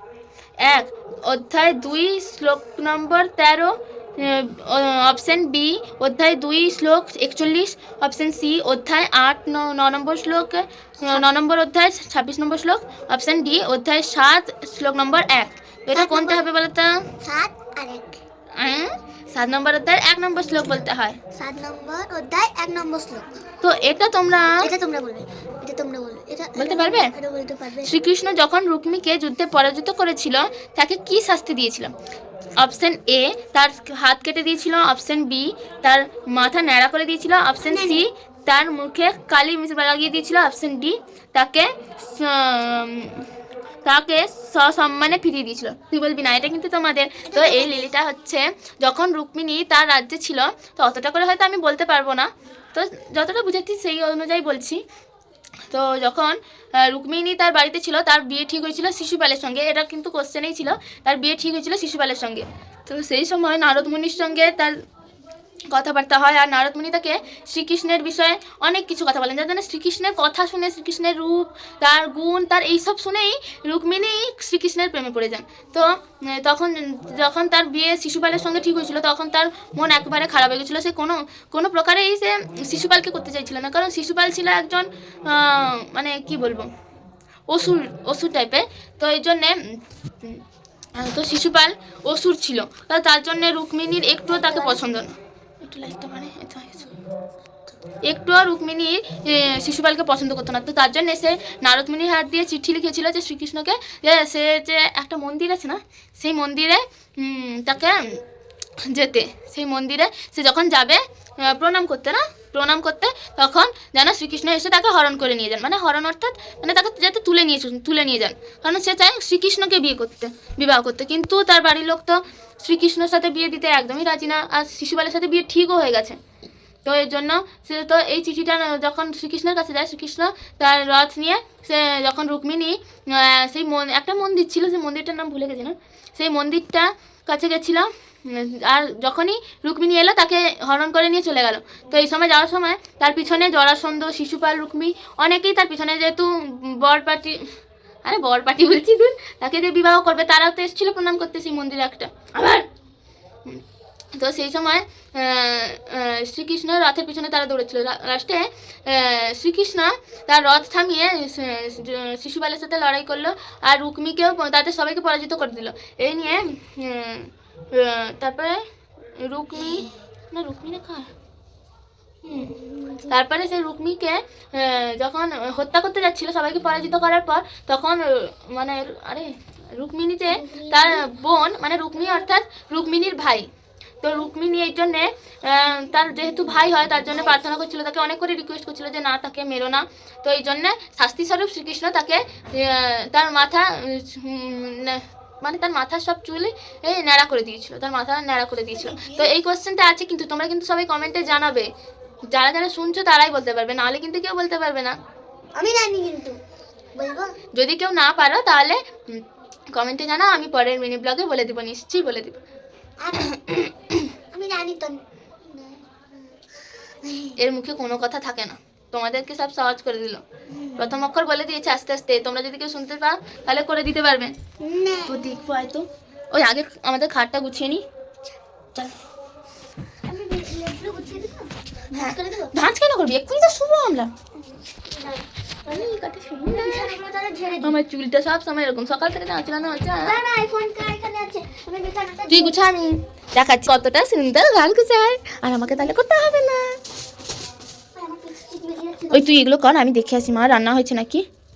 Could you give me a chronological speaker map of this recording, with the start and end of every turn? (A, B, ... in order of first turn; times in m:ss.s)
0:00.6-0:17.0 A
0:11.0-0:11.3 B
0:15.9-0:16.5 B
0:17.2-0:18.2 B
0:18.6-0:21.2 A
0:21.3-0:23.3 B
0:23.6-0:24.7 A
0:24.6-0:27.9 B
0:26.6-0:27.1 A
0:27.8-0:31.9 A
0:32.6-0:43.2 A
0:37.6-0:38.0 B
0:43.8-0:54.8 A
0:47.3-0:47.9 B
0:55.7-1:04.8 A
1:05.7-1:26.7 A
1:27.5-1:30.4 A
1:31.0-1:36.9 A
1:34.3-1:34.9 B
1:38.0-1:48.2 A
1:48.8-2:06.2 A
2:06.8-2:27.5 A
2:28.0-2:32.6 A
2:34.2-2:48.6 A
2:49.2-2:51.1 A
2:52.4-2:53.1 B
2:53.1-3:03.5 A
3:00.3-3:01.0 B
3:04.0-3:21.7 A
3:18.8-3:19.3 B
3:22.3-3:25.0 A
3:25.5-3:26.4 B
3:26.9-3:27.3 B
3:27.5-3:32.4 A
3:33.0-3:33.5 B
3:34.3-3:36.3 B
3:37.0-3:37.4 B
3:37.4-3:40.2 A
3:40.5-3:40.9 B
3:40.8-3:44.3 A
3:44.6-3:45.4 B
3:45.1-3:47.8 A
3:50.0-3:52.5 B
3:51.9-3:54.1 A
3:54.3-3:55.9 B
3:55.7-3:56.9 A
3:56.4-3:57.8 B
3:57.6-4:00.2 A
4:00.0-4:02.6 B
4:02.3-4:06.8 A
4:07.9-4:09.3 B
4:09.1-4:11.2 A